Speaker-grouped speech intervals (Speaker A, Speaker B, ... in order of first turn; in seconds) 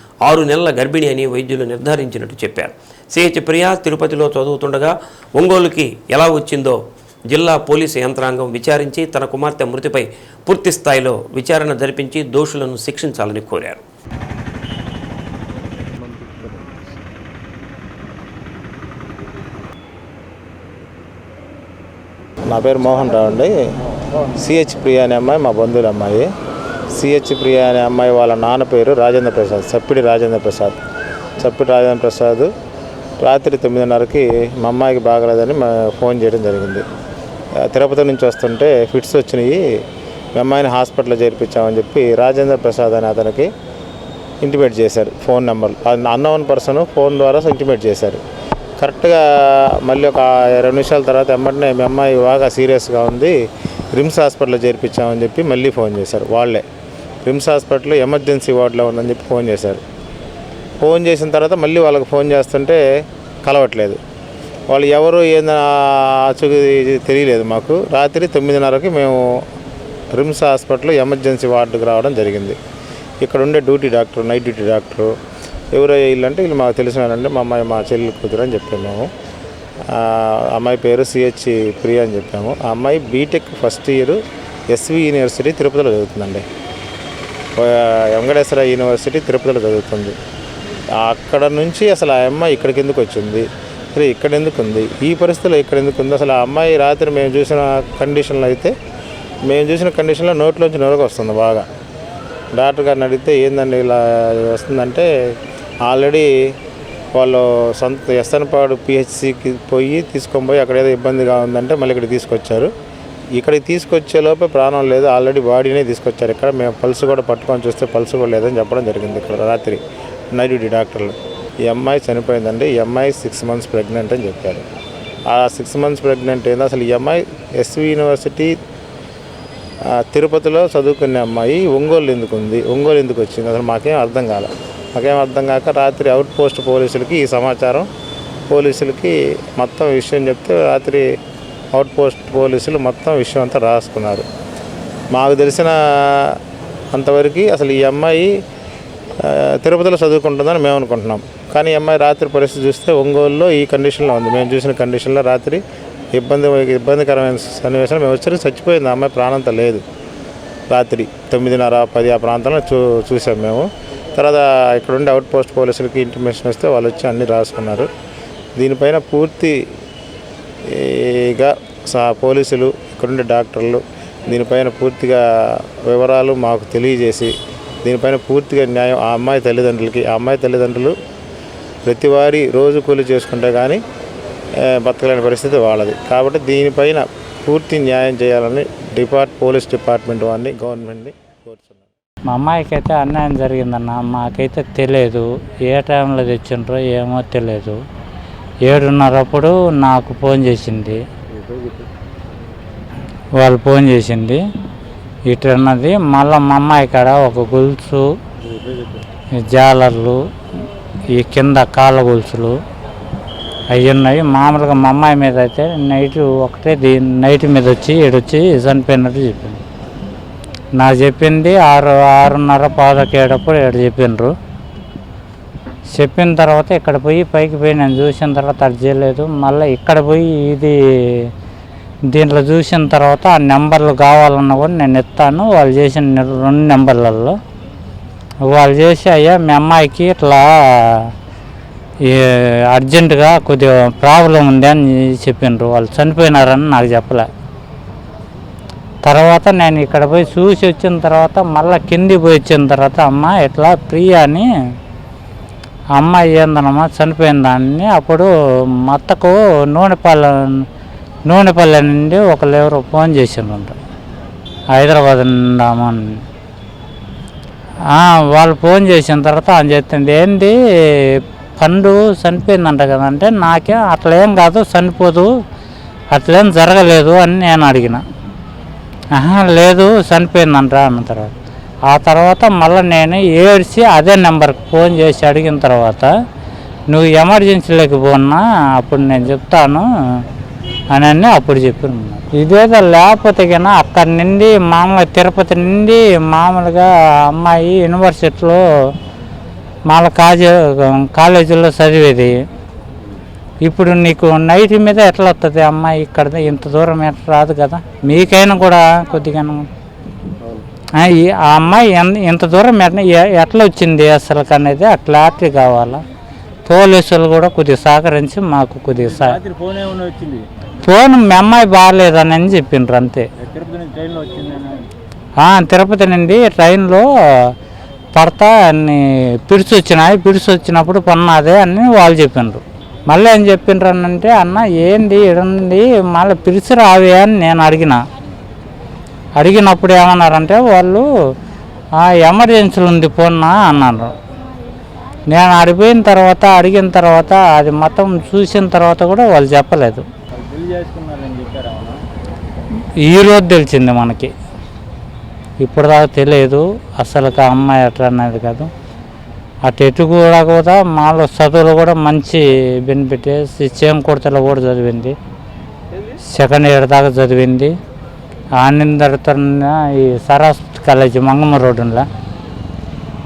Speaker A: 0.2-6.8, 7.3-13.8
Speaker B: 16.0-16.7, 201.3-201.9, 208.4-209.1, 310.4-310.7, 318.9-320.5, 323.4-324.9, 350.4-352.0
Speaker C: 22.5-23.5, 24.3-26.3, 26.9-30.8, 31.4-32.5, 33.2-36.8, 37.6-39.8, 40.4-43.5, 44.4-48.2, 48.8-53.3, 53.9-56.6, 57.2-59.8, 60.8-62.8, 63.4-64.0, 64.7-69.5, 70.1-72.6, 73.2-75.1, 75.7-79.1, 79.9-86.4, 87.6-90.2, 91.0-98.7, 99.5-101.7, 102.5-105.3, 105.8-106.5, 107.1-112.7, 113.4-119.8, 120.3-124.6, 125.3-128.5, 129.9-137.9, 138.5-141.1, 141.7-144.3, 145.1-146.4, 146.9-148.4, 149.2-155.6, 156.1-159.8, 160.7-167.9, 168.6-169.6, 170.7-177.3, 177.8-180.9, 181.9-183.8, 184.6-191.8
Speaker D: 192.3-197.8, 198.7-201.0, 203.4-204.4, 205.3-208.2, 209.4-210.2, 211.1-212.6, 213.7-219.6, 220.8-224.3, 225.9-231.3, 232.1-237.4, 238.5-241.1, 242.0-247.3, 249.0-254.5, 256.0-258.3, 258.8-260.6, 261.3-263.8, 264.7-266.2, 267.9-275.3, 276.1-278.0, 279.1-281.3, 281.9-286.1, 286.9-290.2, 290.9-298.6, 299.9-302.4, 303.6-309.7, 311.0-316.0, 316.7-319.4, 320.8-323.3, 325.4-327.5, 328.1-338.0, 339.4-341.1, 342.0-344.1, 345.3-350.0, 353.0-354.3, 355.6-358.7, 359.6-365.1, 366.3-367.7, 368.6-372.1